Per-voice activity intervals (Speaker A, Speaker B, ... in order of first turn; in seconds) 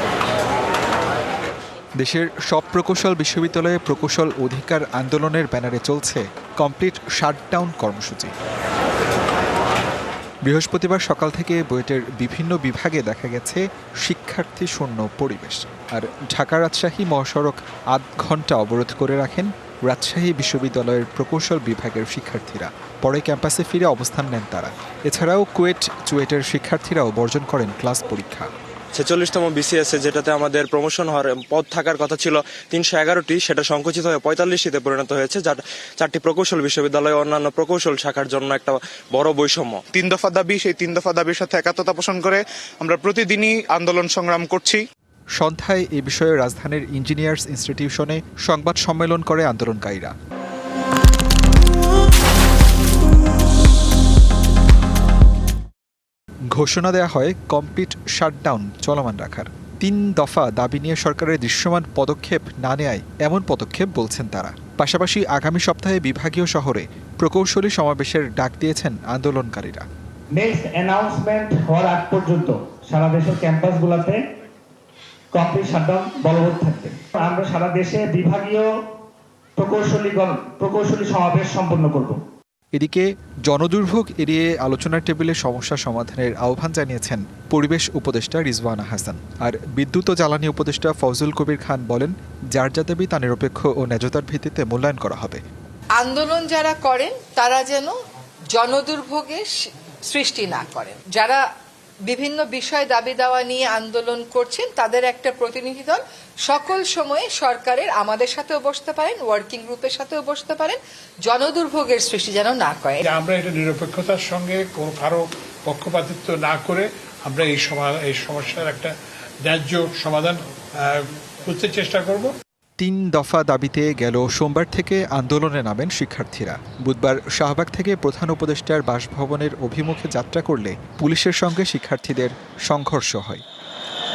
Speaker A: 2.0-8.3, 10.5-28.5, 45.4-50.1, 56.5-69.9, 82.7-95.4, 122.8-133.4
Speaker B: 29.0-39.8
Speaker C: 39.9-44.8
Speaker D: 70.3-74.2, 75.3-78.7, 79.6-82.2
Speaker E: 96.0-97.9, 98.5-99.5, 100.1-101.4, 102.1-113.0
Speaker F: 113.0-118.9, 119.4-122.3